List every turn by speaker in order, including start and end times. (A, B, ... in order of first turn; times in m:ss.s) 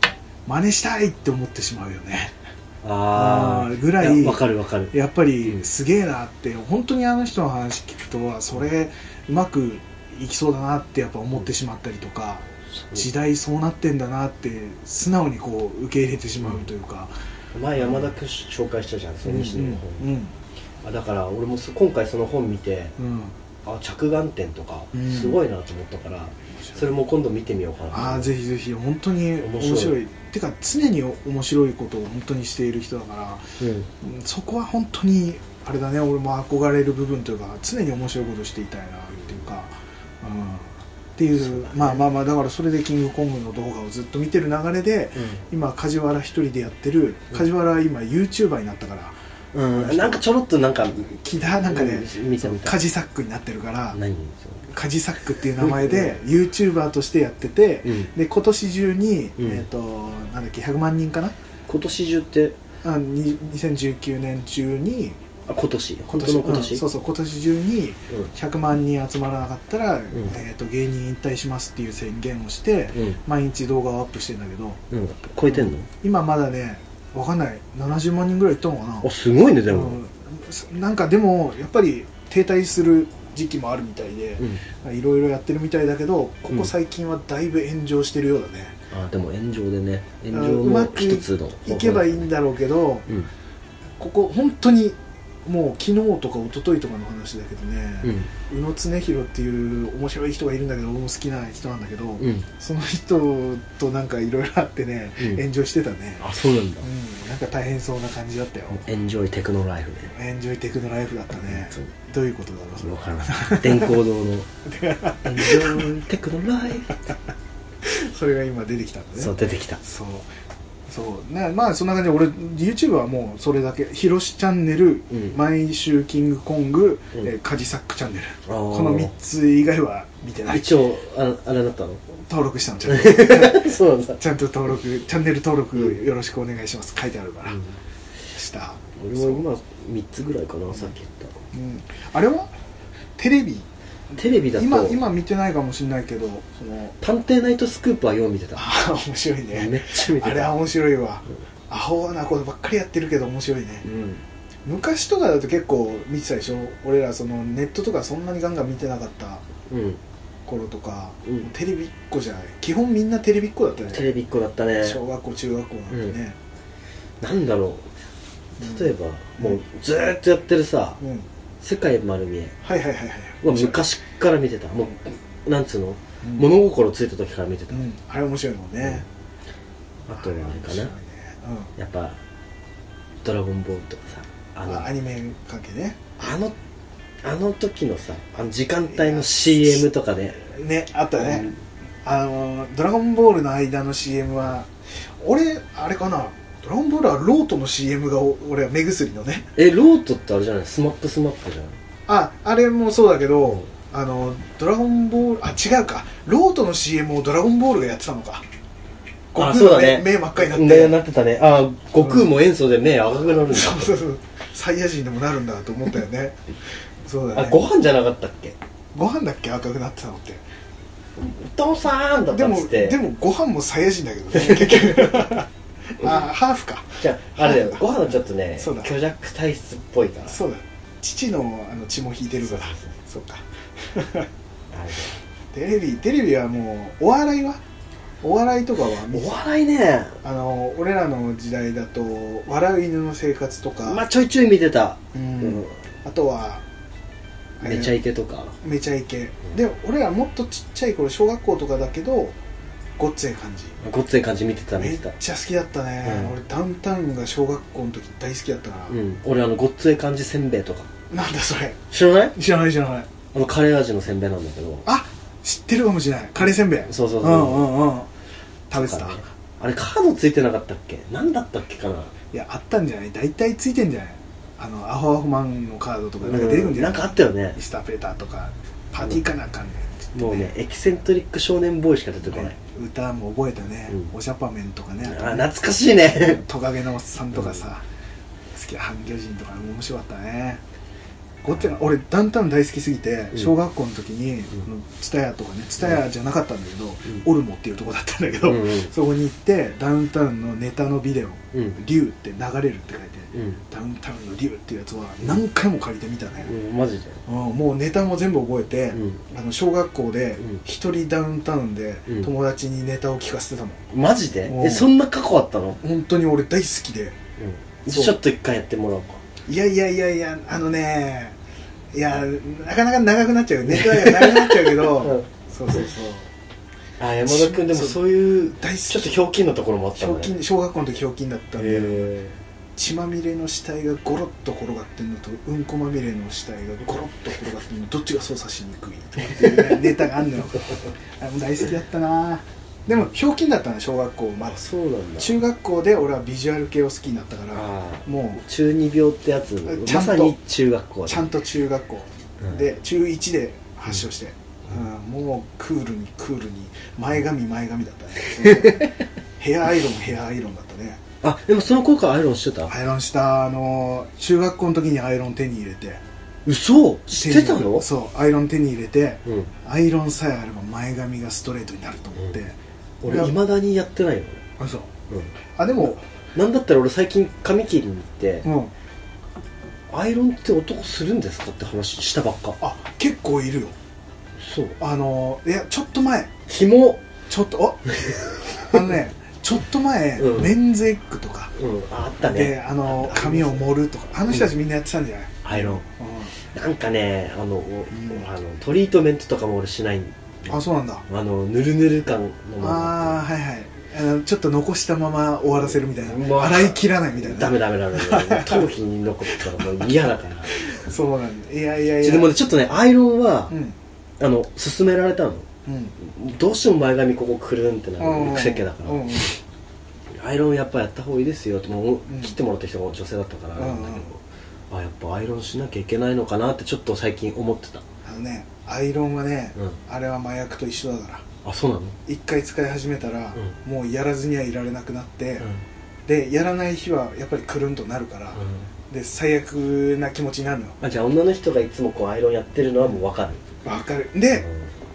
0:00.5-0:02.3 A
0:02.8-0:05.6 B
0:03.1-0:17.1 A
0:12.7-0:13.1 B
0:17.5-0:20.1 B
0:17.8-0:18.1 A
0:19.3-0:20.3 A
0:20.8-0:23.0 B
0:23.0-0:23.4 A
0:23.6-0:28.3 B
0:24.9-0:25.4 A
0:27.9-0:33.5 A
0:29.4-0:30.0 B
0:33.6-0:33.9 B
0:34.0-0:49.2 A
0:41.4-0:42.0 B
0:45.2-0:45.4 B
0:49.5-0:52.8 B
0:49.7-0:50.2 A
0:51.1-0:54.0 A
0:53.9-0:54.6 B
0:54.7-1:01.4 A
0:55.6-0:56.2 B
0:57.8-0:58.1 B
0:59.4-0:59.6 B
1:01.7-1:02.6 B
1:02.8-1:05.2 A
1:05.5-1:06.8 B
1:06.1-1:14.8 A
1:12.9-1:13.2 B
1:14.9-1:15.9 B
1:15.5-1:19.1 A
1:19.0-1:20.0 B
1:19.7-1:28.8 A
1:28.9-1:32.3 B
1:30.3-1:33.1 A
1:34.0-1:46.3 A
1:38.0-1:38.3 B
1:42.2-1:42.5 B
1:46.2-1:46.9 B
1:46.8-1:48.8 A
1:48.7-1:50.1 B
1:50.1-1:54.0 A
1:51.4-1:51.9 B
1:52.8-1:54.5 B
1:54.6-1:55.9 A
1:55.2-1:57.0 B
1:57.8-2:00.3 A
1:59.2-1:59.8 B
2:00.9-2:10.8 A
2:05.1-2:05.4 B
2:08.5-2:09.1 B
2:10.5-2:12.0 B
2:12.2-2:17.6 A
2:12.9-2:14.2 B
2:17.5-2:17.8 B
2:18.3-2:19.4 A
2:19.0-2:21.4 B
2:21.5-2:22.5 A
2:23.2-2:23.7 A
2:24.2-2:25.0 B
2:24.6-2:27.0 A
2:27.0-2:28.6 B
2:28.6-2:33.8 A
2:29.5-2:30.6 B
2:33.8-2:34.2 B
2:34.7-2:39.4 A
2:39.7-2:40.0 B
2:40.5-2:44.1 A
2:43.9-2:45.0 B
2:44.8-2:46.4 A
2:45.9-2:46.2 B
2:47.2-2:47.9 B
2:48.6-2:51.0 B
2:48.6-2:49.6 A
2:51.0-2:51.3 A
2:51.6-2:52.6 B
2:52.6-2:53.8 A
2:53.4-2:57.8 B
2:56.2-2:56.5 A
2:57.7-2:59.0 A
3:00.1-3:00.9 B
3:00.1-3:01.7 A
3:01.8-3:02.2 B
3:03.2-3:04.9 B
3:04.6-3:06.0 A
3:06.2-3:06.6 B
3:07.2-3:10.4 B
3:08.9-3:09.9 A
3:10.4-3:11.5 A
3:11.2-3:11.6 B
3:12.0-3:19.5 A
3:19.6-3:21.8 B
3:22.1-3:28.5 A
3:29.3-3:31.0 A
3:29.4-3:34.0 B
3:32.0-3:32.3 A
3:33.3-3:36.4 A
3:37.0-3:37.6 A
3:37.3-3:38.6 B
3:38.9-3:40.4 A
3:41.2-3:43.0 B
3:42.3-3:48.9 A
3:44.3-3:45.4 B
3:47.0-3:50.4 B
3:50.3-3:54.3 A
3:52.5-3:52.9 B
3:54.7-3:55.2 B
3:55.5-3:57.6 A
3:58.2-3:59.4 A
3:59.1-4:00.2 B
4:00.2-4:04.0 A
4:03.8-4:05.8 B
4:05.1-4:06.6 A
4:07.6-4:08.0 A
4:07.6-4:08.6 B
4:08.6-4:12.4 A
4:13.0-4:13.8 A
4:13.8-4:15.2 B
4:14.8-4:19.0 A
4:16.0-4:16.3 B
4:18.9-4:20.9 B
4:21.1-4:21.8 A
4:21.9-4:22.4 B
4:22.4-4:23.1 A
4:23.3-4:24.9 B
4:24.8-4:28.1 A
4:26.9-4:27.8 B
4:28.7-4:29.3 A
4:28.7-4:32.1 B
4:32.3-4:40.5 A
4:36.2-4:37.6 B
4:40.1-4:42.6 B
4:42.3-4:45.5 A
4:45.0-4:46.4 B
4:46.1-4:47.8 A
4:47.3-4:47.6 B
4:48.5-4:50.6 A
4:51.4-5:06.5 A
4:58.4-4:58.9 B
5:01.5-5:01.8 B
5:03.3-5:03.6 B
5:06.4-5:07.2 B
5:07.3-5:13.8 A
5:08.9-5:09.2 B
5:13.9-5:15.8 B
5:14.5-5:14.9 A
5:15.8-5:17.2 A
5:17.4-5:19.2 B
5:17.9-5:18.2 A
5:19.5-5:21.4 A
5:21.9-5:26.3 A
5:23.7-5:25.8 B
5:27.0-5:30.4 B
5:27.3-5:29.2 A
5:30.0-5:32.1 A
5:31.6-5:32.4 B
5:32.8-5:44.6 A
5:39.3-5:39.8 B
5:44.5-5:45.4 B
5:45.2-5:48.4 A
5:47.5-5:51.3 B
5:49.6-5:50.4 A
5:51.1-6:01.0 A
5:58.4-5:59.0 B
6:01.2-6:02.8 B
6:02.7-6:06.0 A
6:06.5-6:07.9 B
6:07.1-6:13.3 A
6:09.3-6:09.5 B
6:13.0-6:14.4 B
6:14.6-6:14.9 A
6:15.1-6:18.5 B
6:15.6-6:16.0 A
6:18.4-6:18.7 A
6:19.9-6:22.6 B
6:22.6-6:23.8 A
6:24.4-6:24.8 B
6:24.8-6:26.3 A
6:26.5-6:27.1 B
6:27.3-6:31.5 A
6:27.9-6:28.9 B
6:30.2-6:30.6 B
6:31.6-6:34.5 B
6:32.2-6:36.4 A
6:35.4-6:43.2 B
6:37.9-6:38.2 A
6:40.5-6:41.0 A
6:42.6-6:48.7 A
6:45.5-6:50.6 B
6:49.3-6:49.9 A
6:50.5-6:52.4 A
6:52.0-6:53.6 B
6:53.5-6:53.8 A
6:54.2-6:55.5 B
6:55.7-6:56.0 A
6:56.0-6:59.4 B
6:58.0-6:59.3 A
7:00.1-7:07.8 B
7:02.1-7:02.4 A
7:03.6-7:04.1 A
7:08.0-7:11.3 A
7:11.4-7:12.0 B
7:12.1-7:15.5 A
7:16.1-7:20.8 A
7:18.4-7:18.7 B
7:20.8-7:23.4 B
7:23.6-7:24.5 A
7:24.4-7:24.6 B